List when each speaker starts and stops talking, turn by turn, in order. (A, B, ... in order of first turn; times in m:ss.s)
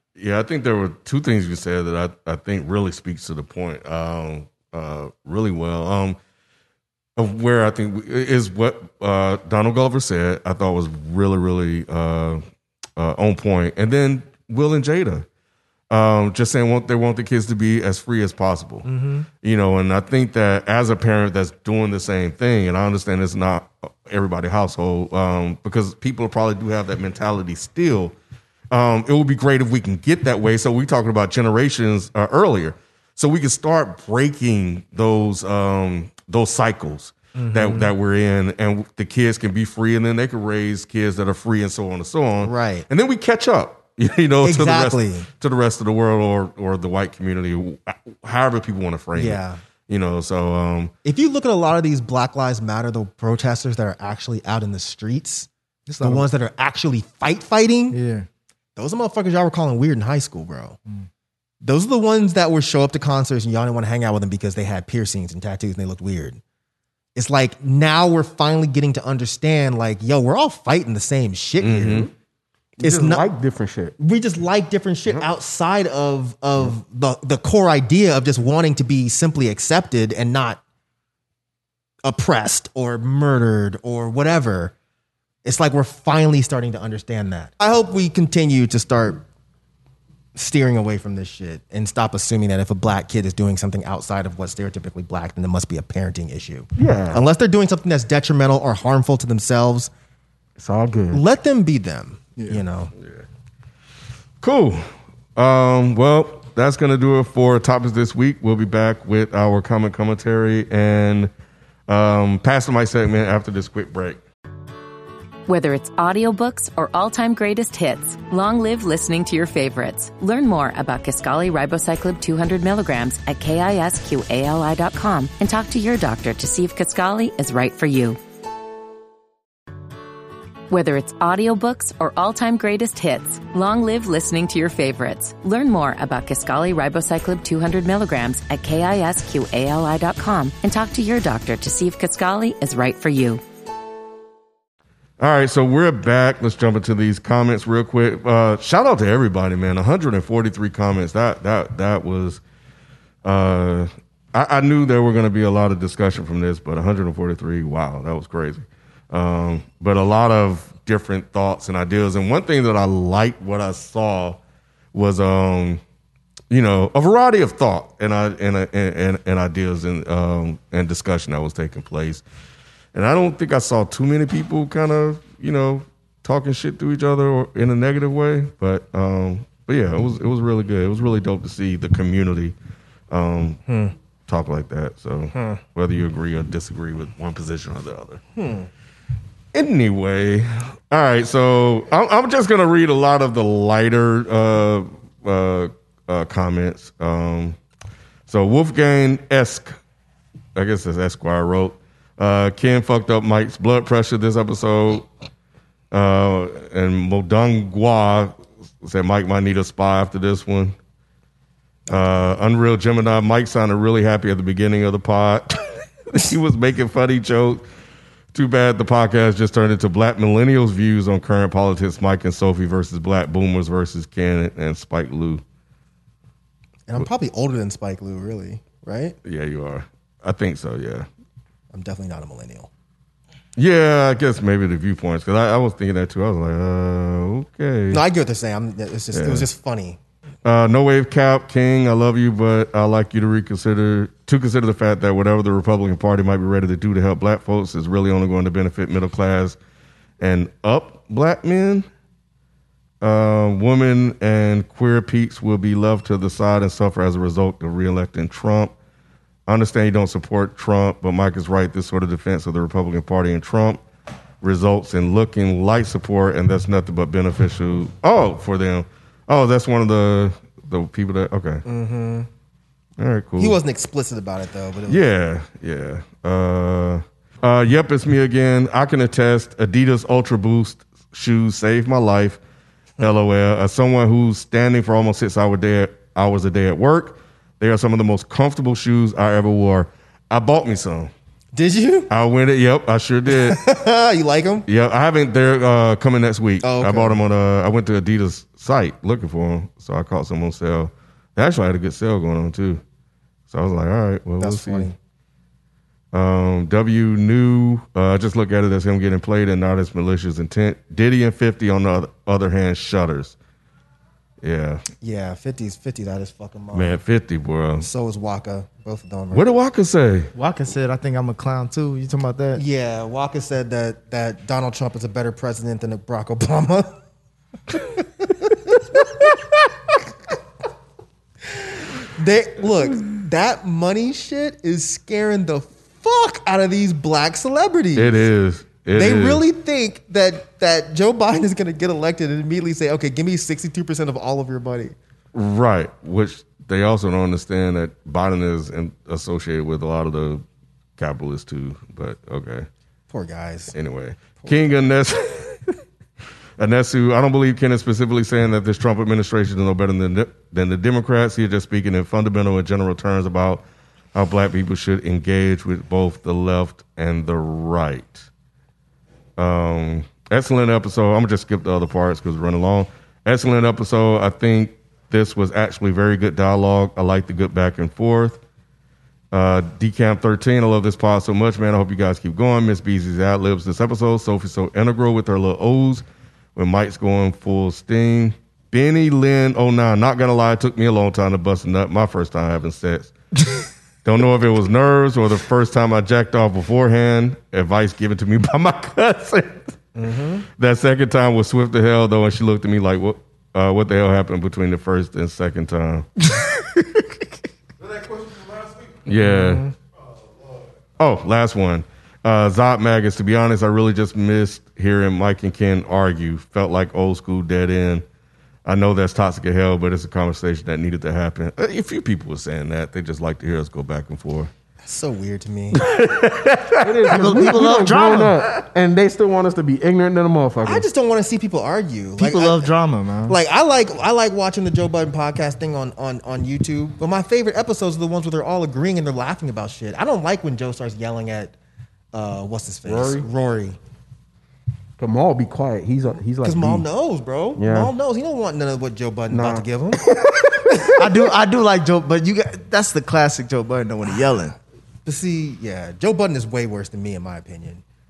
0:00.2-0:06.2 A
0:07.2-0:12.4 A
0:13.0-0:15.3 A
0:15.9-0:18.9 A
0:18.8-0:19.3 B
0:19.4-0:28.2 A
0:28.7-0:50.9 A
0:37.4-0:37.9 B
0:42.4-0:42.9 B
0:44.4-0:45.3 B
0:49.1-0:49.6 B
0:51.0-0:55.5 B
0:55.9-0:56.3 C
0:56.0-0:58.0 B
0:57.9-0:58.3 C
0:58.8-1:00.8 B
1:01.6-1:06.4 B
1:07.2-1:12.1 B
1:11.6-1:12.1 A
1:12.8-1:14.0 D
1:12.8-1:13.3 B
1:14.0-1:20.6 B
1:22.0-1:24.7 B
1:25.4-1:29.2 B
1:30.4-1:39.9 B
1:36.8-1:37.2 D
1:40.6-1:41.2 D
1:41.1-1:42.9 B
1:44.4-1:51.3 A
1:51.9-1:54.2 A
1:55.5-2:08.2 E
2:10.7-2:23.4 E
2:25.2-2:32.4 A
2:33.2-2:44.4 A
2:44.9-2:45.8 A
2:46.5-2:52.2 A
2:52.9-3:02.6 A
3:03.1-3:03.6 A
3:03.7-3:03.9 B
3:04.3-3:08.2 A
3:05.3-3:05.6 B
3:08.4-3:08.7 B
3:09.5-3:17.6 A
3:18.3-3:19.7 A
3:20.6-3:25.1 A
3:25.9-3:30.8 A
3:31.9-3:32.2 B
3:31.9-3:37.6 A
3:38.3-3:45.4 A
3:46.9-3:49.2 B
3:49.2-3:51.1 A
3:51.7-3:52.7 B
3:53.6-3:58.0 A
3:57.9-4:00.0 B
3:59.1-3:59.4 A
4:00.4-4:09.6 A
4:10.2-4:11.9 A
4:13.0-4:18.7 A
4:19.5-4:23.8 A
4:24.4-4:31.6 A
4:31.6-4:32.3 B
4:33.0-4:33.6 A
4:33.4-4:35.0 B
4:34.9-4:42.4 A
4:43.0-4:51.1 A
4:51.5-4:52.1 B
4:52.1-4:53.6 A
4:53.3-4:54.7 B
4:54.7-5:02.8 A
4:56.6-4:57.2 B
5:03.5-5:04.9 A
5:04.4-5:05.0 B
5:06.1-5:13.4 A
5:14.4-5:14.8 A
5:15.0-5:17.0 B
5:16.7-5:17.9 A
5:17.8-5:19.5 B
5:19.3-5:20.3 A
5:20.4-5:22.6 C
5:22.6-5:27.0 B
5:27.7-5:29.6 B
5:31.5-5:38.3 B
5:38.0-5:39.4 A
5:38.9-5:45.0 B
5:45.3-5:50.4 A
5:51.0-5:52.7 A
5:53.1-5:53.8 B
5:53.7-5:55.8 A
5:54.4-5:54.7 B
5:56.6-6:08.3 A
6:09.4-6:18.4 A
6:19.3-6:26.0 A
6:26.6-6:39.8 A
6:40.0-6:40.4 B
6:40.6-6:46.1 A
6:47.9-6:49.7 A
6:49.3-6:49.7 B
6:51.0-6:58.0 A
6:58.7-7:04.5 A
7:04.8-7:05.8 B
7:05.8-7:06.9 A
7:06.8-7:10.9 D
7:07.1-7:08.4 C
7:10.6-7:12.7 B
7:12.2-7:13.4 C
7:13.3-7:21.6 B
7:22.1-7:23.8 B
7:22.9-7:23.3 D
7:25.0-7:26.9 D
7:26.4-7:30.2 B
7:27.6-7:27.9 D
7:29.3-7:30.6 D
7:30.7-7:31.0 B
7:31.0-7:34.6 C
7:35.0-7:37.8 B